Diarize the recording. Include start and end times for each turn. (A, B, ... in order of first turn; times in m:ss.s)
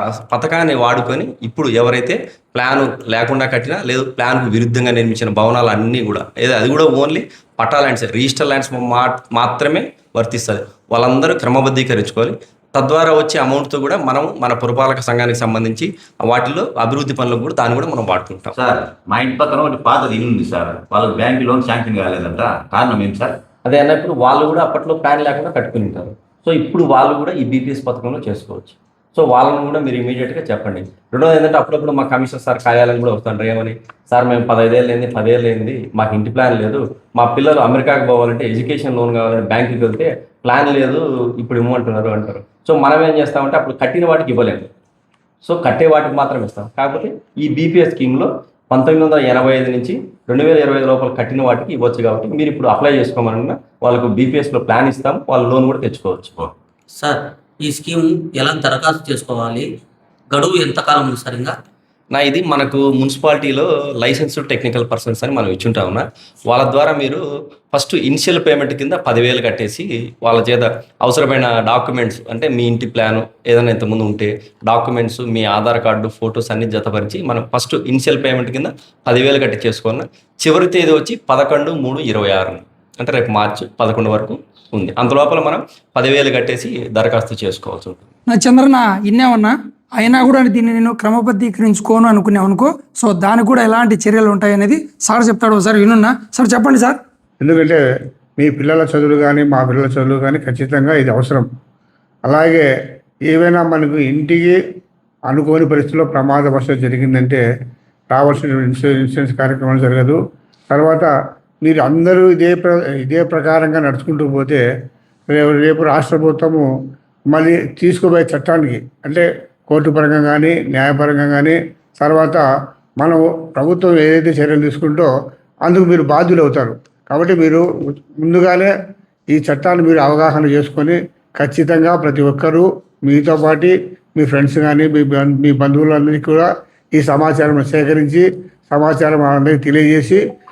0:00.3-0:18.6 A
0:18.5-0:23.4 B
0:23.6-0:44.7 A
0:45.4-0:56.5 A
0:57.0-0:59.7 C
1:00.3-1:01.6 C
1:02.1-1:28.0 A
1:28.3-1:37.0 D
1:37.4-1:37.8 E
1:38.4-1:41.5 E
1:42.2-1:42.7 E
1:43.3-1:44.6 E
1:45.3-1:47.4 E
1:48.1-1:50.2 E
1:50.7-1:51.1 E
1:51.6-1:54.6 E
1:55.3-1:56.7 E
1:57.3-2:02.4 E
2:03.0-2:05.1 E
2:05.6-2:07.6 E
2:08.2-2:08.7 E
2:09.3-2:20.2 E